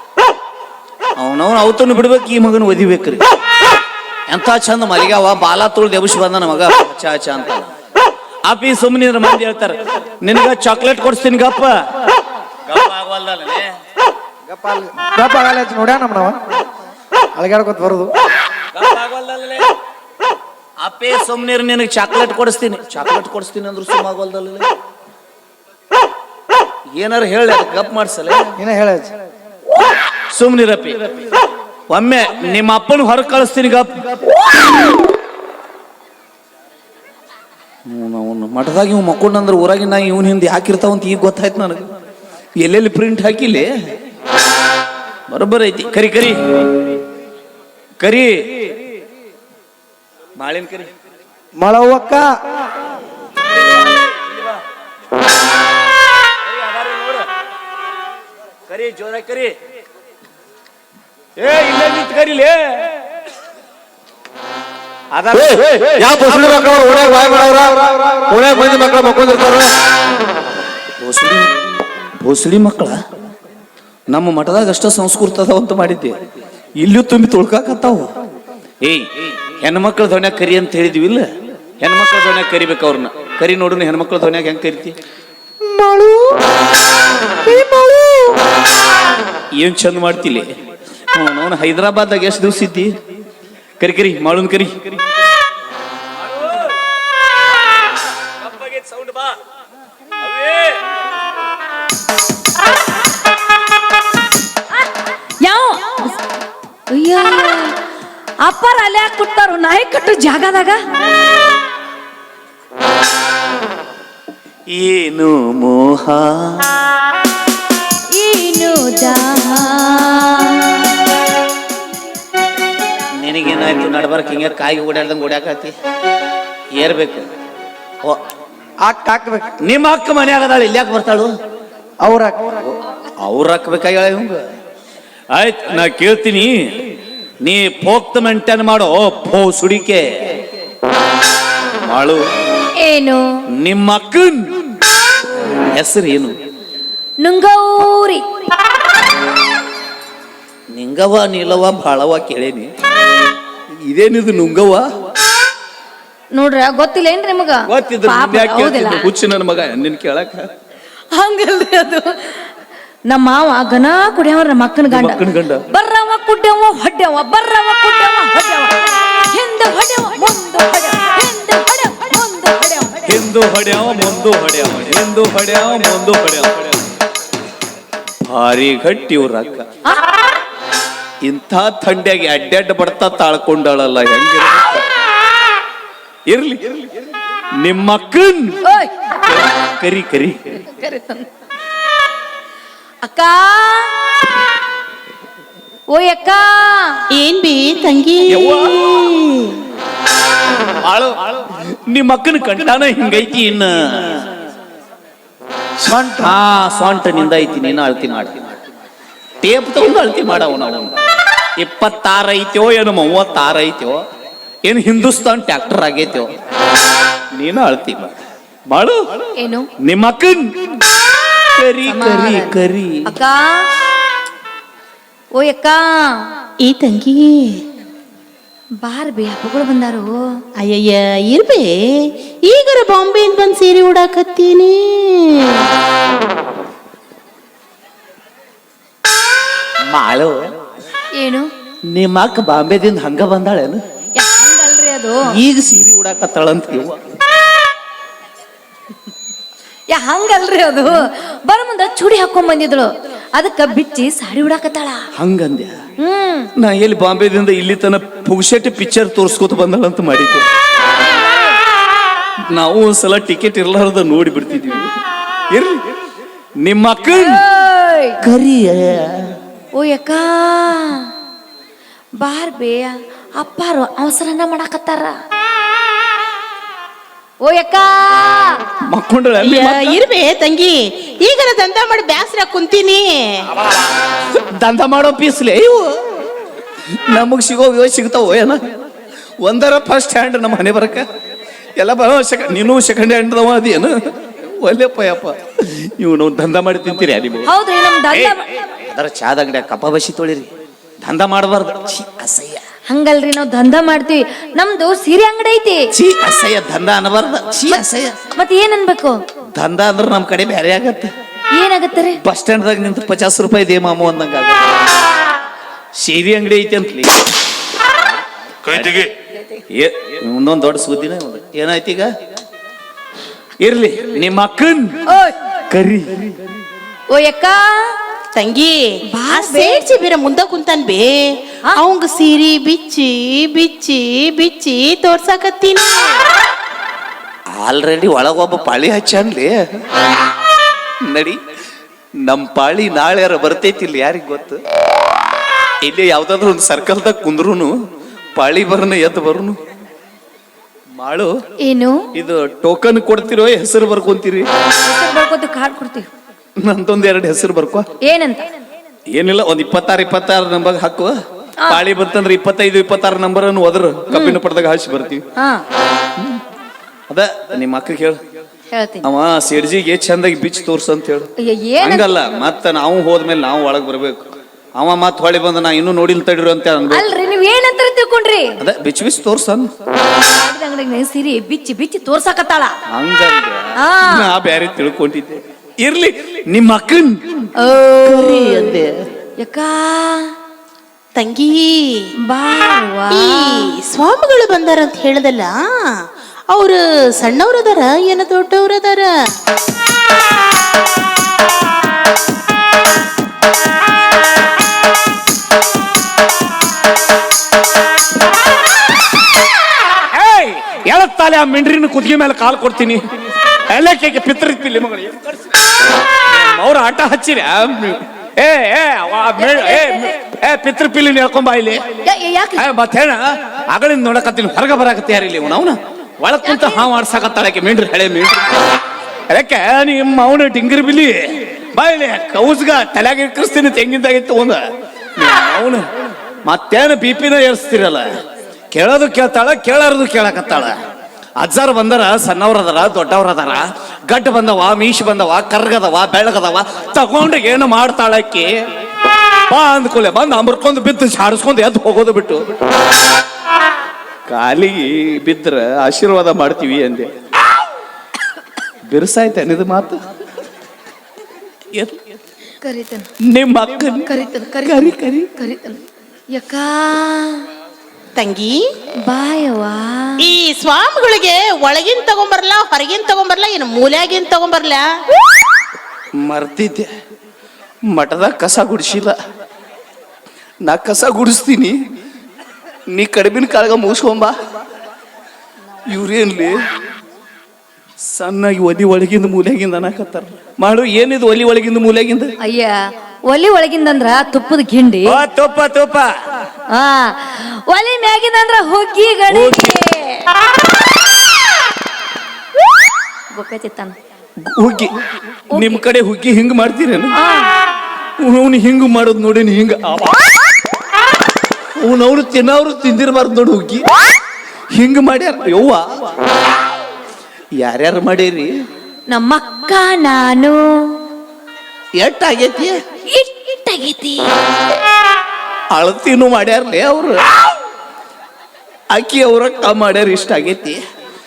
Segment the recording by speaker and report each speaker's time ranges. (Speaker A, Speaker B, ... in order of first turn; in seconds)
Speaker A: 1.2-3.2, 4.3-7.7, 8.5-11.8, 12.7-13.7, 18.7-19.7, 20.8-24.7, 26.9-28.5, 30.3-31.1, 31.9-34.0, 37.9-41.8, 42.6-43.7, 45.3-46.4, 48.0-48.7, 50.4-50.9, 56.4-57.3, 58.7-59.5, 61.4-63.0, 65.1-68.9, 71.0-71.5, 72.2-73.0, 74.1-76.2, 76.8-78.0, 78.8-81.2, 81.8-85.0, 89.5-90.5, 91.1-92.9, 93.8-94.7, 98.3-99.4, 100.2-100.8, 114.7-116.8, 123.2-125.7, 126.7-127.3, 129.6-131.3, 132.6-134.4, 135.3-136.6, 137.4-140.0, 141.8-142.2, 143.5-144.4, 145.7-146.3, 150.7-152.7, 153.8-154.8, 157.7-160.5, 164.9-165.6, 173.1-176.8, 178.2-179.7, 181.2-184.9, 186.3-186.9, 187.6-188.6, 189.2-190.5, 198.3-198.9, 200.8-204.3, 206.2-208.3, 209.4-210.9, 211.6-214.0, 214.6-216.3, 217.3-218.1, 218.7-219.0, 219.8-220.5, 221.5-223.1, 239.9-240.4, 241.9-243.8, 245.3-247.0, 255.2-255.7, 256.6-260.5, 262.5-264.9, 265.5-265.8, 266.6-267.4, 268.2-269.3, 278.9-280.0, 284.3-286.0, 286.9-288.6, 289.4-291.1, 291.8-297.5, 298.1-300.5, 301.0-302.6, 305.9-308.2, 309.5-311.1, 312.2-314.7, 315.9-317.2, 318.6-319.1, 319.7-322.1, 323.6-324.9, 325.7-326.4, 337.5-339.6, 341.0-341.4, 342.2-344.6, 345.8-347.7, 348.3-349.6, 351.0-351.3, 352.1-354.5, 356.6-357.9, 359.1-361.1, 361.7-365.2, 366.1-366.4, 367.1-368.2, 369.0-371.3, 371.8-377.1, 378.6-379.7, 382.9-387.4, 388.0-388.9, 410.1-421.8, 422.6-428.7, 429.3-434.6, 435.2-435.9, 436.4-438.1, 438.7-440.7, 441.4-448.5, 449.5-452.5, 454.3-457.1, 458.9-460.0, 463.2-464.1, 464.6-465.3, 476.1-476.9, 477.9-479.1, 480.6-481.8, 482.9-484.3, 485.8-486.6, 488.0-492.3, 495.0-496.1, 499.3-499.8, 504.4-504.9, 505.5-507.1, 508.2-510.2, 511.8-513.8, 514.7-516.2, 517.6-518.5, 522.0-522.8, 525.7-527.2, 528.9-530.8
Speaker B: 14.5-16.4, 17.4-18.1, 28.6-29.1, 51.5-52.3, 85.6-86.4, 87.5-88.4, 128.8-129.5, 132.0-132.6, 205.8-206.3
Speaker C: 66.2-67.8, 68.5-69.7
Speaker D: 105.4-106.2, 106.9-107.8, 108.4-110.8, 118.2-121.0, 142.8-143.3, 147.2-148.2, 156.3-159.1, 161.1-162.5, 163.1-173.1, 188.6-189.1, 190.6-191.3, 193.0-193.9, 195.9-197.0, 219.4-219.7, 221.9-222.5, 223.1-223.6, 225.3-226.2, 228.8-230.2, 241.1-241.5, 244.2-245.3, 249.9-255.0, 256.0-256.5, 260.9-261.6, 267.1-268.2, 269.7-271.0, 272.2-275.1, 277.4-278.6, 297.4-298.4, 302.9-305.9, 308.4-309.2, 311.5-312.2, 325.1-325.4, 327.1-327.9, 329.1-329.8, 351.6-352.0, 354.8-356.1, 358.0-358.5, 364.1-364.4, 365.4-365.6, 368.7-369.1, 371.4-372.1, 376.9-378.5, 380.2-382.8, 383.8-384.3, 387.6-388.7, 389.4-390.3, 392.3-393.6, 419.4-420.1, 422.0-422.6, 426.4-426.9, 462.6-463.1, 464.1-465.8, 466.3-467.4, 469.0-470.2, 492.4-492.8, 493.3-495.2, 496.7-500.3, 503.3-503.9, 505.5-505.8, 507.1-507.5, 519.1-520.9, 523.1-524.3
Speaker E: 197.1-199.6, 226.6-227.6, 230.6-231.7, 232.5-235.7, 279.4-283.4, 328.3-336.2, 391.1-392.1, 393.1-395.9, 396.5-399.1, 468.1-468.6, 470.2-474.9